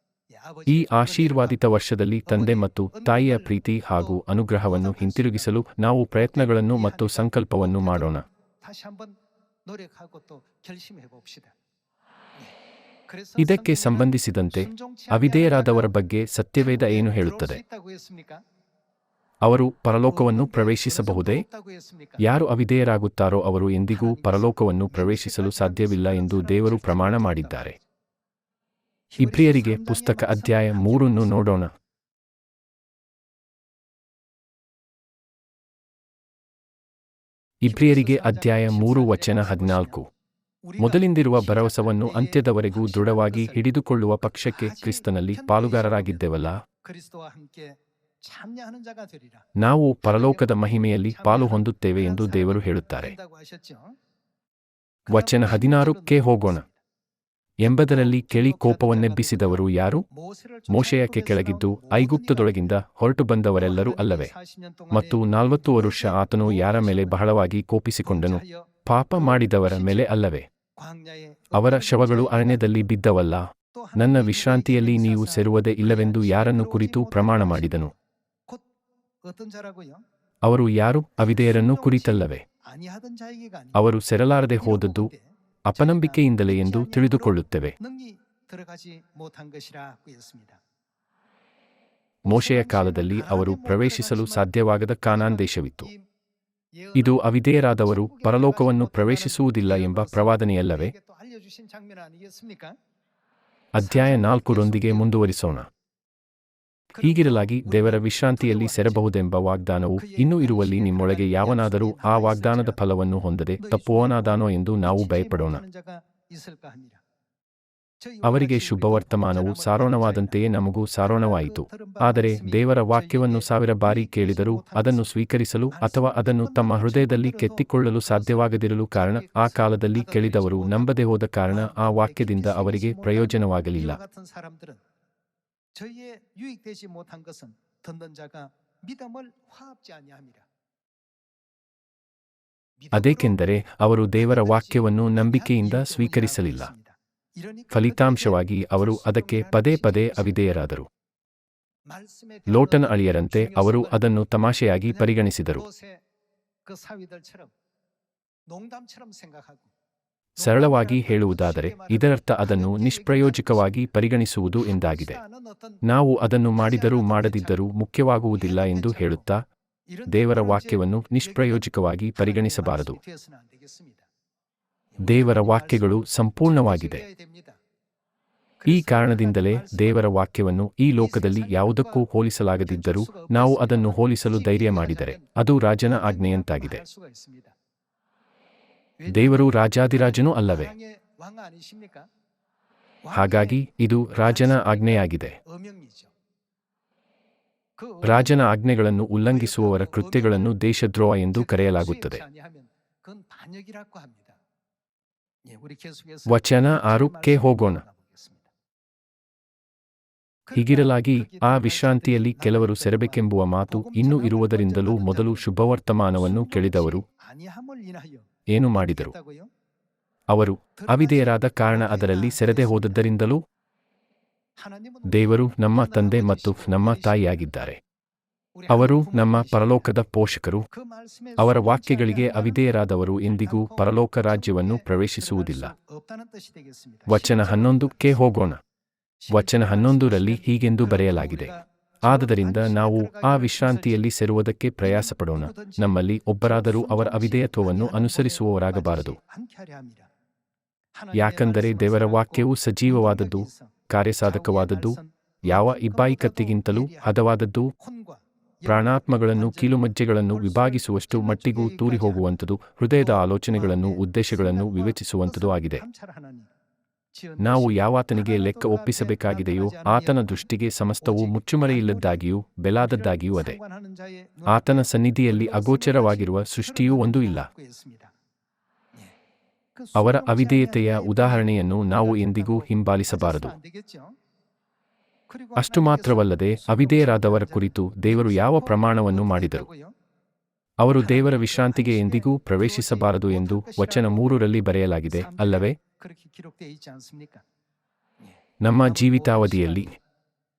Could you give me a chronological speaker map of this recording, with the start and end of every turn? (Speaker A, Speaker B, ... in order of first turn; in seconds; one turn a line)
Speaker A: 0.4-1.5
Speaker B: 0.7-8.2
Speaker A: 2.3-3.4
Speaker A: 4.8-5.4
Speaker A: 6.4-7.2
Speaker A: 7.8-8.1
Speaker A: 8.6-9.1
Speaker A: 9.7-11.5
Speaker A: 13.1-14.1
Speaker B: 13.4-17.6
Speaker A: 14.9-15.9
Speaker A: 16.7-18.4
Speaker B: 19.4-21.4
Speaker A: 20.1-22.2
Speaker B: 22.2-27.8
Speaker A: 24.0-27.5
Speaker A: 29.1-31.2
Speaker B: 29.2-31.7
Speaker B: 37.6-40.0
Speaker A: 37.7-39.9
Speaker A: 40.7-42.3
Speaker B: 40.8-46.6
Speaker A: 42.8-43.4
Speaker A: 44.6-45.9
Speaker A: 46.9-49.4
Speaker B: 49.6-53.1
Speaker A: 50.2-50.6
Speaker A: 51.3-51.6
Speaker A: 52.2-52.5
Speaker A: 53.1-53.9
Speaker B: 55.1-56.6
Speaker A: 55.1-56.7
Speaker B: 57.6-60.1
Speaker A: 57.9-59.3
Speaker A: 60.5-62.5
Speaker B: 60.7-64.3
Speaker A: 63.7-65.1
Speaker B: 64.9-70.5
Speaker A: 66.0-67.1
Speaker A: 70.8-72.6
Speaker B: 71.5-77.9
Speaker A: 73.8-75.4
Speaker A: 76.0-77.7
Speaker A: 79.2-80.0
Speaker B: 80.4-82.4
Speaker A: 81.5-82.2
Speaker A: 82.7-83.7
Speaker B: 83.7-85.1
Speaker A: 84.8-85.2
Speaker B: 85.7-87.8
Speaker A: 85.8-87.3
Speaker A: 87.8-90.6
Speaker B: 92.2-95.9
Speaker A: 92.4-94.3
Speaker B: 96.9-100.9
Speaker A: 98.1-100.3
Speaker A: 100.8-102.7
Speaker B: 103.7-105.7
Speaker B: 107.0-115.6
Speaker A: 107.0-107.8
Speaker A: 108.4-109.0
Speaker A: 110.1-112.8
Speaker A: 115.0-117.0
Speaker A: 118.1-120.3
Speaker B: 118.2-134.0
Speaker A: 121.4-122.6
Speaker A: 124.1-124.9
Speaker A: 125.8-127.5
Speaker A: 129.2-130.8
Speaker A: 131.6-134.8
Speaker A: 135.8-140.4
Speaker A: 142.8-143.3
Speaker B: 142.9-146.7
Speaker A: 144.3-146.9
Speaker A: 147.5-148.1
Speaker B: 147.7-150.9
Speaker A: 149.0-149.9
Speaker A: 151.9-153.9
Speaker B: 152.5-155.7
Speaker A: 155.7-156.0
Speaker A: 156.7-157.5
Speaker A: 158.5-159.7
Speaker B: 160.4-165.2
Speaker A: 160.4-161.9
Speaker A: 162.6-163.6
Speaker B: 165.8-169.4
Speaker A: 166.7-167.5
Speaker A: 168.4-169.1
Speaker A: 170.0-170.7
Speaker B: 170.1-173.0
Speaker A: 171.3-171.6
Speaker A: 172.2-174.0
Speaker B: 175.0-177.0
Speaker A: 175.1-175.8
Speaker A: 176.6-177.5
Speaker A: 178.6-179.9
Speaker B: 178.7-186.8
Speaker A: 181.1-182.0
Speaker A: 182.7-185.2
Speaker A: 185.9-187.5
Speaker A: 189.0-189.3
Speaker B: 189.1-190.7
Speaker A: 190.5-192.1
Speaker A: 193.1-193.5
Speaker B: 193.1-195.4
Speaker A: 195.5-196.1
Speaker A: 197.8-198.2
Speaker B: 198.0-202.2
Speaker A: 199.4-200.4
Speaker A: 201.4-204.3
Speaker A: 205.5-208.4
Speaker B: 206.3-207.8
Speaker B: 210.5-217.0
Speaker A: 211.4-213.1
Speaker A: 213.8-215.4
Speaker A: 216.2-218.2
Speaker B: 218.5-219.1
Speaker A: 219.1-219.5
Speaker B: 220.3-223.4
Speaker A: 220.8-221.2
Speaker A: 221.8-222.8
Speaker A: 224.7-225.1
Speaker B: 225.1-227.8
Speaker A: 225.9-226.8
Speaker A: 228.6-229.6
Speaker B: 228.7-230.7
Speaker A: 230.9-232.5
Speaker B: 231.4-235.8
Speaker A: 233.5-233.8
Speaker A: 234.4-234.8
Speaker A: 236.1-237.9
Speaker B: 237.1-238.6
Speaker B: 239.3-249.2
Speaker A: 239.4-241.5
Speaker A: 242.1-243.5
Speaker A: 246.6-250.1
Speaker A: 251.0-253.5
Speaker B: 251.1-257.7
Speaker A: 254.4-255.0
Speaker A: 255.7-256.7
Speaker B: 258.6-265.8
Speaker A: 260.5-260.8
Speaker A: 261.4-262.1
Speaker A: 263.6-263.9
Speaker A: 264.5-264.9
Speaker A: 265.8-266.5
Speaker A: 267.2-267.6
Speaker B: 267.4-273.6
Speaker A: 268.3-270.1
Speaker A: 273.9-274.4
Speaker B: 274.5-277.5
Speaker A: 275.5-276.0
Speaker A: 276.7-278.1
Speaker A: 279.8-281.5
Speaker B: 279.9-283.6
Speaker A: 282.1-282.6
Speaker A: 283.2-284.1
Speaker A: 285.3-287.6
Speaker B: 285.6-289.7
Speaker A: 288.3-289.9
Speaker B: 290.8-295.8
Speaker A: 291.8-292.2
Speaker A: 292.7-294.2
Speaker A: 295.2-297.4
Speaker B: 298.6-299.9
Speaker A: 298.9-299.8